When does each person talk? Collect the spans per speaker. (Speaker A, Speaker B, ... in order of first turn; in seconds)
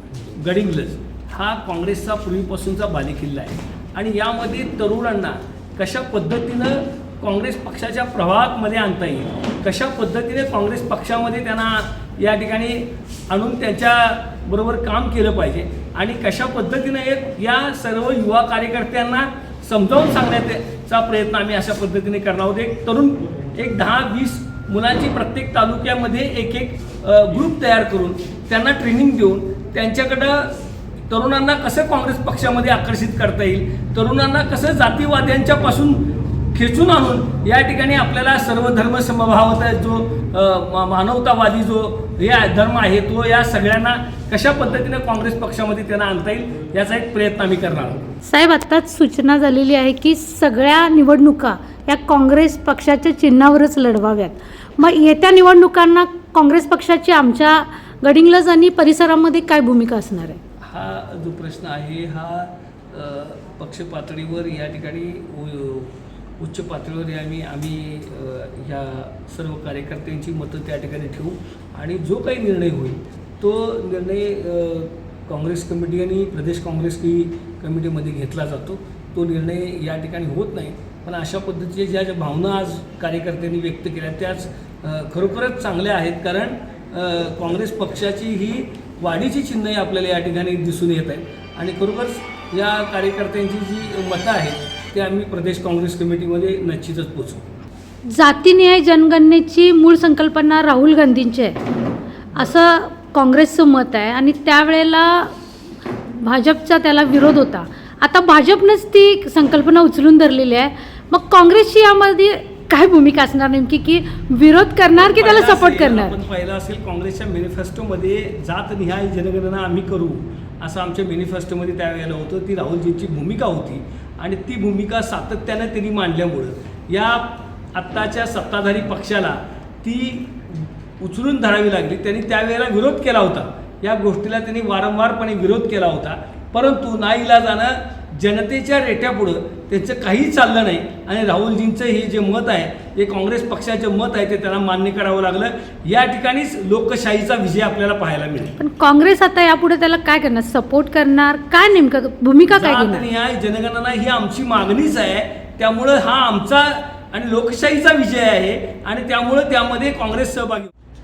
Speaker A: 0.4-48.0, 60.6-97.4, 115.0-148.6, 152.5-160.7
Speaker B: 48.2-60.4, 98.1-101.6, 102.4-105.3, 106.1-116.2, 148.6-153.0